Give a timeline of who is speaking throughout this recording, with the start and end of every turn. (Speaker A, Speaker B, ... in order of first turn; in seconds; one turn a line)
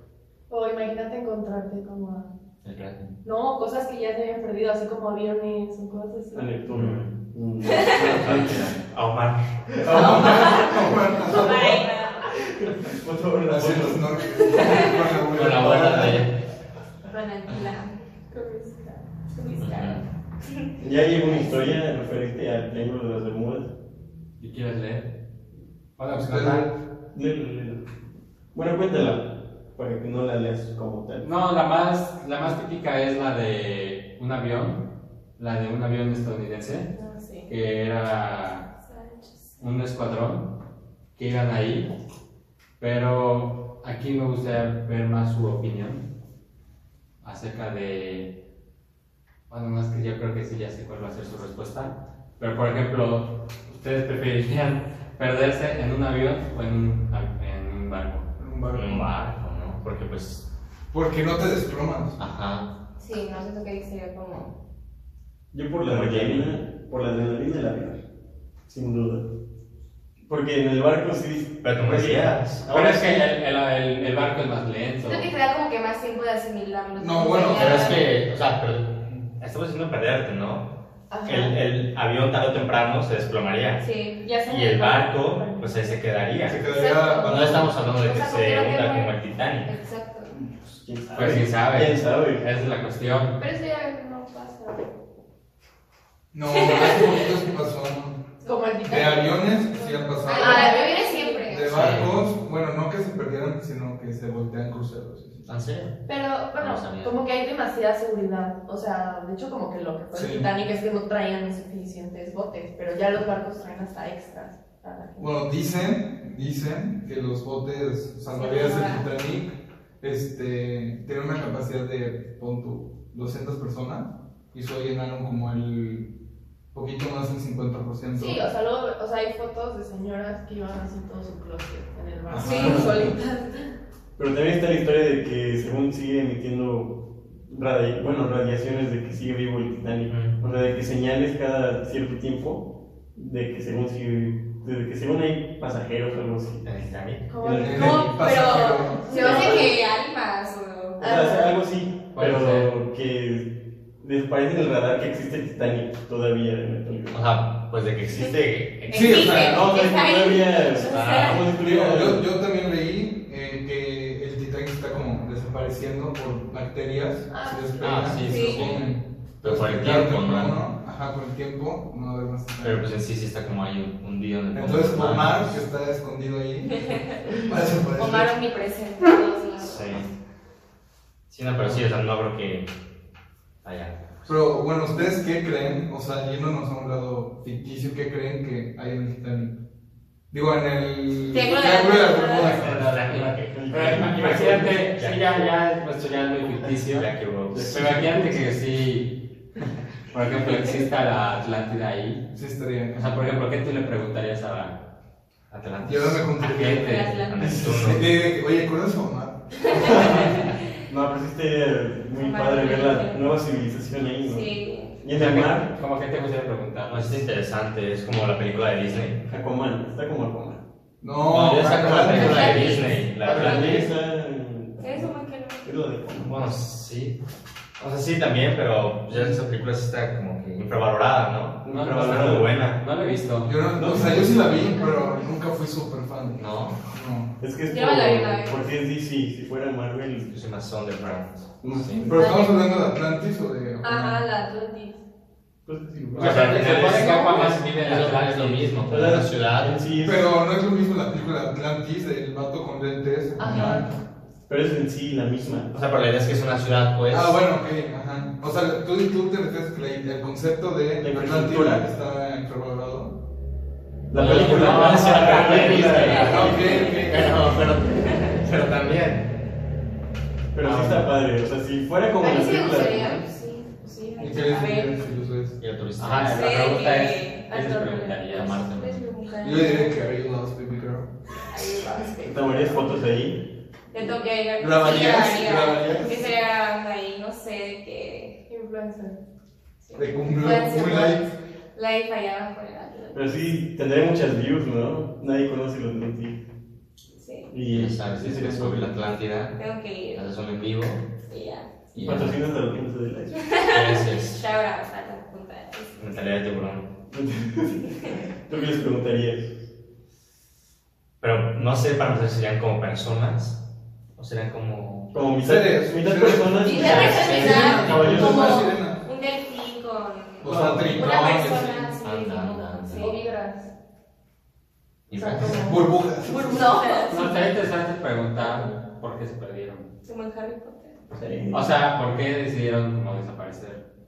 Speaker A: 0.5-2.3
Speaker B: 2.6-3.2
Speaker A: 3.2-6.5
Speaker C: 6.3-8.7
Speaker B: 6.7-7.1
Speaker B: 7.8-9.6
Speaker D: 7.9-8.2
Speaker C: 9.7-10.4
Speaker E: 9.8-11.8
Speaker D: 9.9-12.3
Speaker C: 12.2-14.1
Speaker E: 13.5-16.2
Speaker D: 14.5-15.0
Speaker B: 15.3-16.2
Speaker C: 15.5-16.2
Speaker F: 15.8-16.2
Speaker D: 17.1-18.0
Speaker A: 18.3-19.0
Speaker D: 19.3-21.7
Speaker B: 19.6-20.0
Speaker C: 20.8-23.7
Speaker F: 24.4-25.1
Speaker F: 26.0-26.7
Speaker E: 26.1-26.7
Speaker C: 27.1-27.8
Speaker C: 28.5-31.3
Speaker F: 31.2-34.9
Speaker F: 35.4-36.9
Speaker A: 36.9-37.5
Speaker F: 37.5-38.7
Speaker A: 38.9-39.2
Speaker F: 39.6-40.5
Speaker F: 41.1-41.9
Speaker F: 42.8-46.0
Speaker F: 47.2-48.3
Speaker F: 49.5-58.2
Speaker E: 58.4-59.1
Speaker B: 58.7-60.4
Speaker E: 60.9-62.2
Speaker B: 62.2-62.7
Speaker D: 63.0-64.5
Speaker C: 65.5-68.0
Speaker B: 65.8-66.5
Speaker C: 68.7-69.2
Speaker C: 70.3-73.2
Speaker B: 71.6-72.7
Speaker F: 72.7-75.3
Speaker D: 75.0-78.1
Speaker E: 77.0-78.0
Speaker B: 77.6-80.7
Speaker F: 77.6-78.3
Speaker A: 81.1-81.6
Speaker B: 81.2-83.8
Speaker D: 83.8-84.2
Speaker A: 84.2-86.0
Speaker B: 84.5-86.6
Speaker E: 86.5-87.7
Speaker D: 86.8-89.1
Speaker B: 87.2-89.7
Speaker D: 89.6-90.3
Speaker C: 90.8-92.5
Speaker F: 91.1-93.4
Speaker A: 93.4-94.9
Speaker E: 96.3-98.2
Speaker D: 96.5-97.3
Speaker A: 98.4-101.6
Speaker E: 98.8-100.8
Speaker D: 100.2-102.0
Speaker E: 101.5-105.4
Speaker F: 101.7-102.2
Speaker B: 105.5-106.0
Speaker A: 106.1-115.3
Speaker B: 106.5-107.2
Speaker E: 110.1-110.5
Speaker E: 115.2-126.1
Speaker D: 118.3-119.0
Speaker E: 126.7-128.4
Speaker A: 128.2-133.7
Speaker E: 132.3-132.9
Speaker D: 132.4-132.8
Speaker C: 134.2-146.7
Speaker B: 140.1-140.4
Speaker B: 146.7-147.3
Speaker A: 147.3-149.8
Speaker C: 147.4-148.2
Speaker E: 147.6-149.7
Speaker D: 148.2-151.0
Speaker C: 149.2-149.6
Speaker A: 151.0-151.6
Speaker C: 151.0-157.2
Speaker F: 152.1-152.7
Speaker B: 157.1-159.3
Speaker D: 158.9-161.5
Speaker E: 158.9-159.7
Speaker C: 159.1-162.2
Speaker B: 160.8-161.3
Speaker F: 160.9-161.4
Speaker E: 161.6-172.9
Speaker A: 167.3-168.1
Speaker B: 167.8-168.8
Speaker D: 168.2-168.6
Speaker B: 169.4-170.6
Speaker B: 172.6-175.6
Speaker E: 174.5-178.3
Speaker D: 178.0-179.9
Speaker B: 179.6-180.1
Speaker B: 181.3-182.7
Speaker B: 183.6-184.0
Speaker E: 184.2-189.5
Speaker E: 190.3-192.7
Speaker D: 191.3-192.6
Speaker B: 192.2-195.4
Speaker F: 192.4-197.1
Speaker C: 193.5-194.8
Speaker B: 196.9-197.9
Speaker C: 197.5-198.4
Speaker F: 197.7-199.2
Speaker F: 200.1-202.3
Speaker E: 202.3-203.3
Speaker F: 202.9-204.8
Speaker B: 205.5-206.3
Speaker E: 205.8-210.3
Speaker F: 206.4-207.2
Speaker D: 206.5-207.6
Speaker B: 207.3-208.0
Speaker C: 209.8-210.3
Speaker D: 209.8-210.6
Speaker C: 210.9-215.7
Speaker D: 212.2-213.3
Speaker D: 214.2-215.0
Speaker F: 215.1-217.2
Speaker B: 216.9-219.2
Speaker C: 219.2-220.6
Speaker E: 221.0-222.5
Speaker B: 221.3-223.9
Speaker F: 221.3-223.8
Speaker D: 222.1-223.0
Speaker C: 223.2-226.5
Speaker D: 223.5-223.8
Speaker D: 224.8-225.7
Speaker B: 226.2-227.2
Speaker B: 227.8-232.8
Speaker E: 229.1-229.4
Speaker C: 231.6-232.5
Speaker F: 231.7-233.6
Speaker E: 233.4-237.3
Speaker C: 233.8-234.5
Speaker B: 233.9-234.5
Speaker A: 234.5-235.3
Speaker B: 236.4-236.8
Speaker C: 237.4-240.3
Speaker D: 237.7-238.7
Speaker B: 240.3-242.1
Speaker C: 241.6-242.2
Speaker E: 242.0-244.2
Speaker A: 242.2-242.6
Speaker A: 243.8-245.0
Speaker C: 245.7-247.0
Speaker F: 246.2-248.8
Speaker B: 246.2-249.8
Speaker C: 248.9-250.2
Speaker E: 250.0-253.8
Speaker A: 253.4-253.8
Speaker C: 254.5-255.8
Speaker B: 255.7-257.4
Speaker E: 257.1-263.1
Speaker C: 261.0-261.8
Speaker C: 264.1-266.6
Speaker B: 264.1-269.2
Speaker F: 264.1-266.6
Speaker D: 265.4-268.3
Speaker E: 266.2-267.4
Speaker C: 270.5-273.2
Speaker F: 270.6-271.1
Speaker D: 272.2-274.9
Speaker F: 273.0-273.2
Speaker E: 274.2-275.6
Speaker B: 275.6-276.7
Speaker F: 276.0-278.8
Speaker D: 276.3-277.5
Speaker A: 277.5-278.4
Speaker B: 278.3-279.0
Speaker D: 278.4-279.9
Speaker E: 279.4-281.1
Speaker D: 281.5-282.9
Speaker C: 282.2-283.4
Speaker D: 283.9-288.4
Speaker E: 284.6-286.3
Speaker A: 288.5-289.2
Speaker D: 289.8-293.3
Speaker E: 289.9-291.2
Speaker C: 293.1-296.4
Speaker D: 297.1-297.5
Speaker C: 297.5-298.9
Speaker B: 297.7-299.6
Speaker D: 299.6-300.2
Speaker B: 300.1-301.0
Speaker D: 301.3-301.7
Speaker B: 301.9-302.4
Speaker C: 302.0-303.4
Speaker D: 303.4-306.0
Speaker B: 303.7-304.4
Speaker B: 306.0-306.9
Speaker C: 307.1-309.6
Speaker B: 311.2-313.6
Speaker B: 314.1-315.1
Speaker C: 315.1-318.7
Speaker E: 315.4-319.0
Speaker D: 316.6-323.2
Speaker B: 316.7-318.2
Speaker E: 320.4-321.9
Speaker C: 320.5-321.1
Speaker B: 320.5-321.2
Speaker B: 322.0-323.2
Speaker A: 323.0-323.7
Speaker B: 325.1-325.8
Speaker A: 325.1-327.4
Speaker E: 325.5-326.7
Speaker D: 326.4-327.3
Speaker F: 327.1-329.9
Speaker D: 330.0-331.0
Speaker C: 331.1-331.7
Speaker F: 331.5-333.8